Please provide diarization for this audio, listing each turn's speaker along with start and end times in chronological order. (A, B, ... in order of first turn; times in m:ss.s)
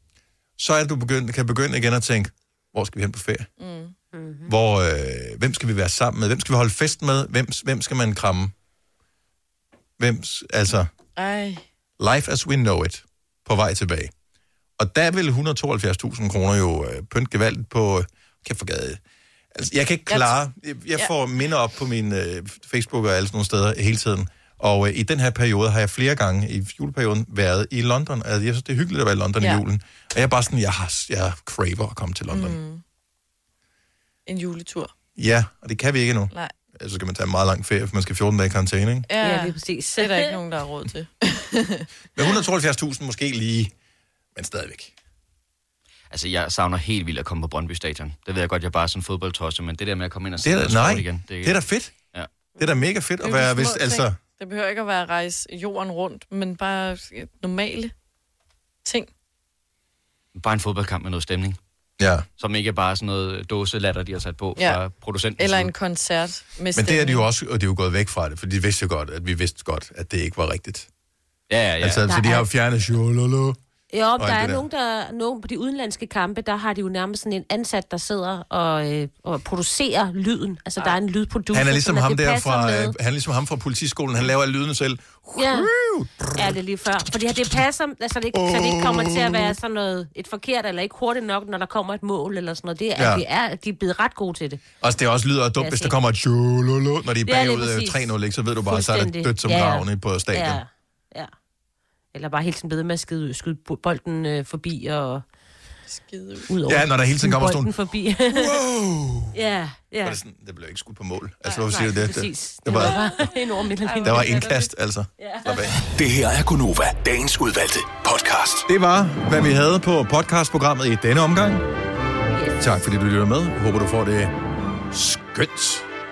0:00.6-0:03.5 A
0:03.6-0:03.9 B
0:04.1-0:04.5 C
0:04.4-0:08.5 A
0:10.0-0:10.9 A
0:11.2-0:11.6 B
0:12.0-0:14.1 A
0:14.8-0:19.0 A
0:19.5-0:32.6 A
0:20.1-0:20.4 B
0:32.3-0:32.8 B
0:34.2-0:34.9 B
0:35.1-0:39.1 A
0:39.1-0:41.8 B
0:39.2-0:40.4 C
0:42.2-0:43.7 A
0:44.3-0:44.9 A
0:46.1-0:52.3 D
0:50.4-0:52.0 A
0:52.6-0:54.2 A
0:53.2-0:57.9 B
0:58.8-0:59.1 B
1:00.3-1:01.6 D
1:02.0-1:02.3 A
1:02.4-1:05.7 D
1:04.6-1:04.8 B
1:05.4-1:07.2 B
1:06.7-1:10.9 A
1:11.5-1:12.0 D
1:11.8-1:13.6 A
1:12.1-1:12.5 C
1:13.9-1:22.9 C
1:14.2-1:14.6 A
1:21.5-1:27.6 A
1:25.4-1:25.7 C
1:26.3-1:34.6 C
1:28.3-1:29.5 A
1:33.0-1:33.2 A
1:34.8-1:40.6 A
1:35.6-1:36.0 C
1:37.2-1:38.1 C
1:38.7-1:41.3 C
1:42.1-1:45.2 C
1:45.9-1:46.5 B
1:46.5-1:48.6 C
1:46.6-1:47.7 A
1:48.3-1:49.4 A
1:49.3-1:50.2 C
1:50.0-1:53.3 A
1:51.5-1:54.6 C
1:52.7-1:54.6 B
1:54.0-1:55.8 A
1:55.2-1:55.6 C
1:55.8-1:58.7 E
1:58.6-2:01.6 A
2:02.3-2:02.8 C
2:02.6-2:04.3 A
2:04.9-2:05.8 A